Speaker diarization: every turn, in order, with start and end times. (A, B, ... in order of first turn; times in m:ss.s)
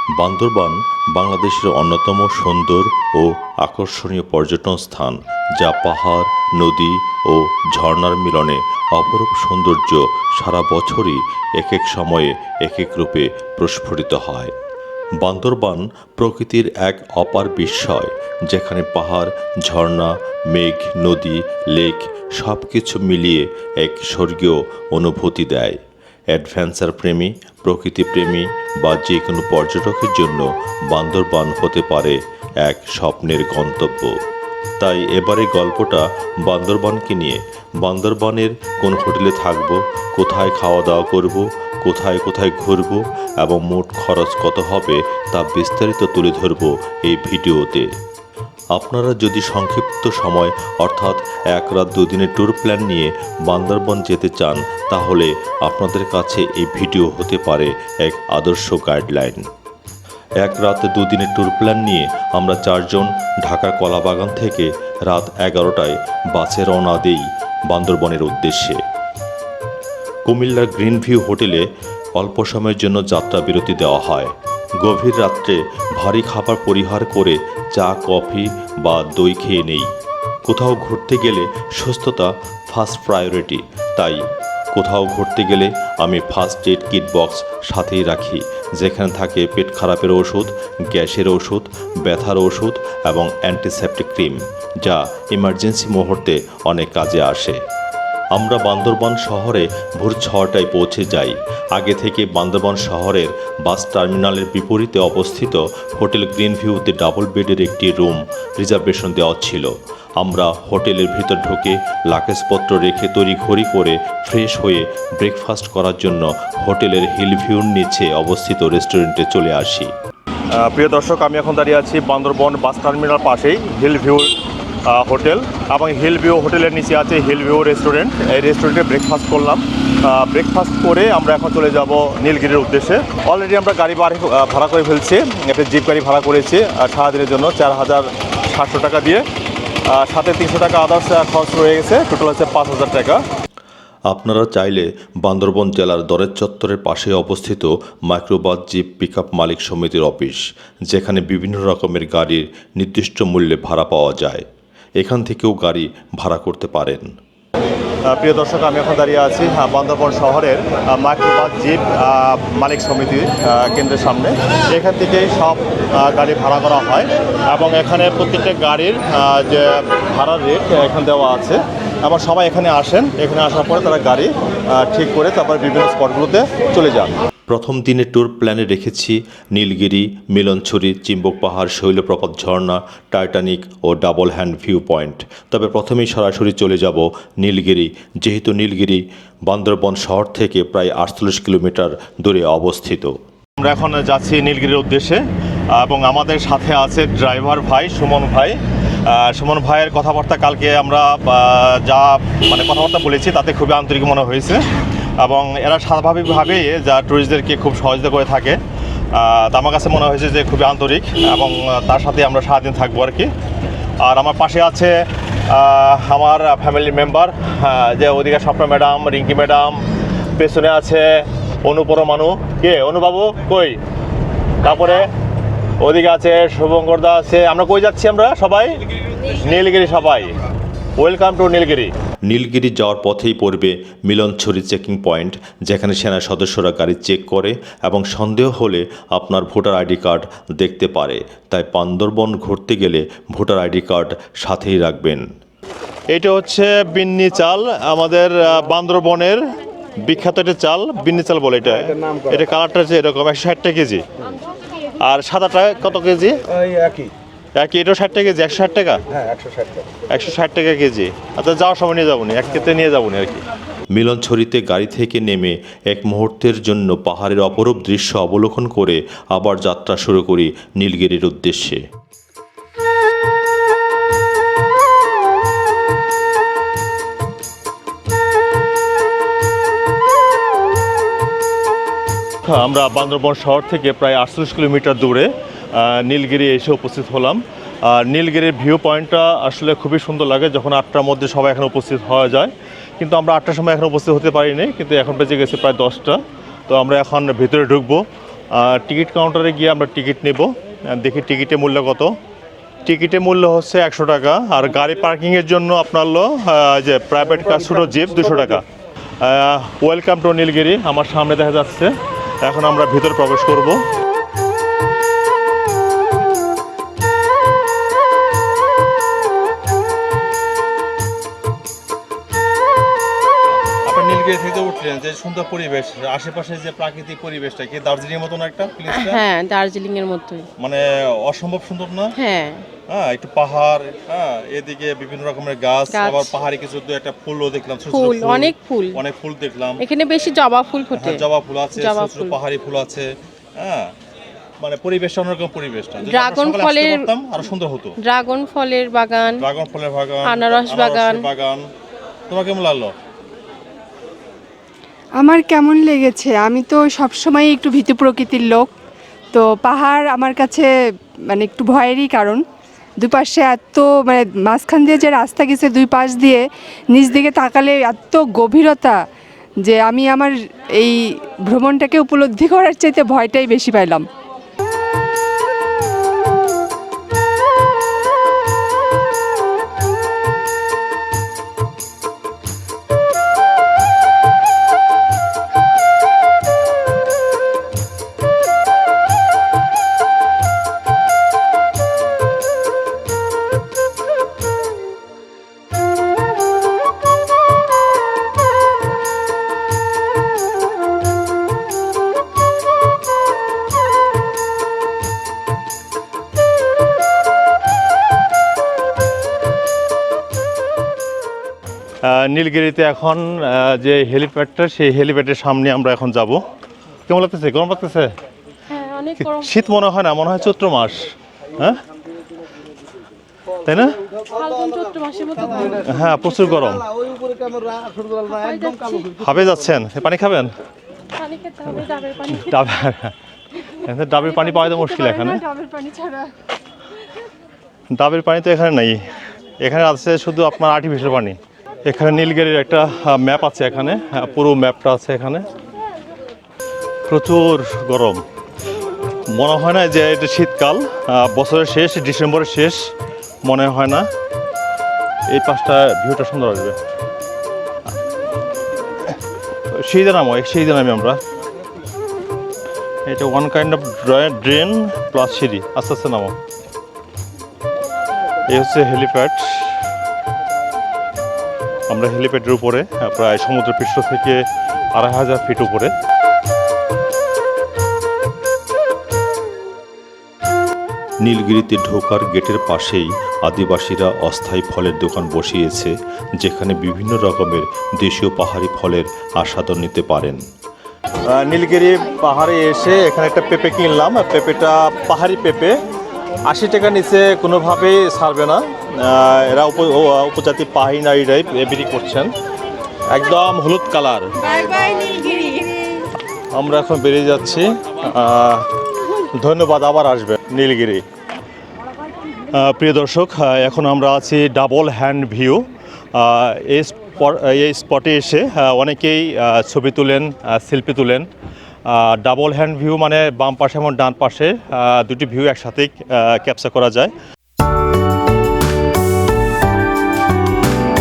0:00.2-0:14.5 A
0:15.2-0:25.8 A
0:26.3-0:34.2 A
0:34.8-0:47.9 A
0:48.7-0:59.5 A
1:00.4-1:08.8 A
1:10.3-1:19.9 A
1:20.5-1:24.2 A
1:24.7-1:37.6 A
1:38.3-1:59.9 A
2:00.6-2:04.3 B
2:04.9-2:19.2 B
2:19.9-2:23.2 B
2:24.1-2:34.5 A
2:35.0-2:37.2 A
2:38.1-2:57.2 B
2:57.5-3:13.1 A
3:13.6-3:24.6 B
3:25.2-3:28.6 B
3:29.1-3:33.3 B
3:34.0-3:39.8 B
3:40.4-3:43.8 B
3:44.6-3:45.1 B
3:45.8-3:48.8 B
3:49.3-3:50.3 B
3:51.0-3:51.9 B
3:52.3-4:05.2 A
4:06.1-4:09.4 B
4:10.0-4:14.0 B
4:15.0-4:16.4 B
4:17.6-4:19.0 B
4:20.1-4:23.4 B
4:23.9-4:31.8 A
4:42.4-4:56.2 B
4:56.7-5:02.2 B
5:02.8-5:08.6 B
5:09.2-5:11.9 B
5:12.4-5:13.8 B
5:23.8-5:29.2 B
5:28.9-5:30.4 C
5:30.6-5:32.1 B
5:32.2-5:32.6 C
5:32.9-5:39.8 B
5:35.9-5:36.4 C
5:37.9-5:39.0 C
5:39.8-5:41.2 C
5:40.9-5:43.9 B
5:41.8-5:42.4 C
5:44.6-5:47.9 B
5:46.1-5:47.1 C
5:48.0-5:49.4 C
5:49.4-5:51.7 B
5:50.2-5:51.2 C
5:52.3-5:52.9 B
5:55.2-5:58.7 D
5:59.3-6:00.7 D
6:01.3-6:02.4 D
6:03.0-6:09.0 D
6:09.6-6:14.0 D
6:52.0-6:56.4 B
6:57.1-6:58.1 B
6:58.7-6:59.5 C
6:59.2-7:01.8 B
7:03.7-7:03.9 B
7:04.3-7:06.0 C
7:05.8-7:06.8 B
7:08.2-7:09.2 C
7:09.2-7:10.5 B
7:11.2-7:12.7 C
7:12.4-7:13.1 B
7:13.8-7:15.4 B
7:14.4-7:16.3 D
7:15.0-7:15.4 C
7:17.9-7:19.0 B
7:19.6-7:25.4 B
7:27.1-7:28.2 B
7:29.3-7:32.9 B
7:33.4-7:34.1 B
7:35.3-7:36.8 B
7:39.7-7:41.2 B
7:43.1-7:46.3 B
7:48.5-7:49.7 B
7:51.9-7:55.9 B
8:01.2-8:10.4 A
8:11.2-8:15.8 B
8:16.5-8:22.3 B
8:23.1-8:24.3 B
8:24.4-8:25.8 C
8:26.5-8:28.7 B
8:29.3-8:31.0 B
8:32.5-8:41.3 B
8:41.9-8:47.1 B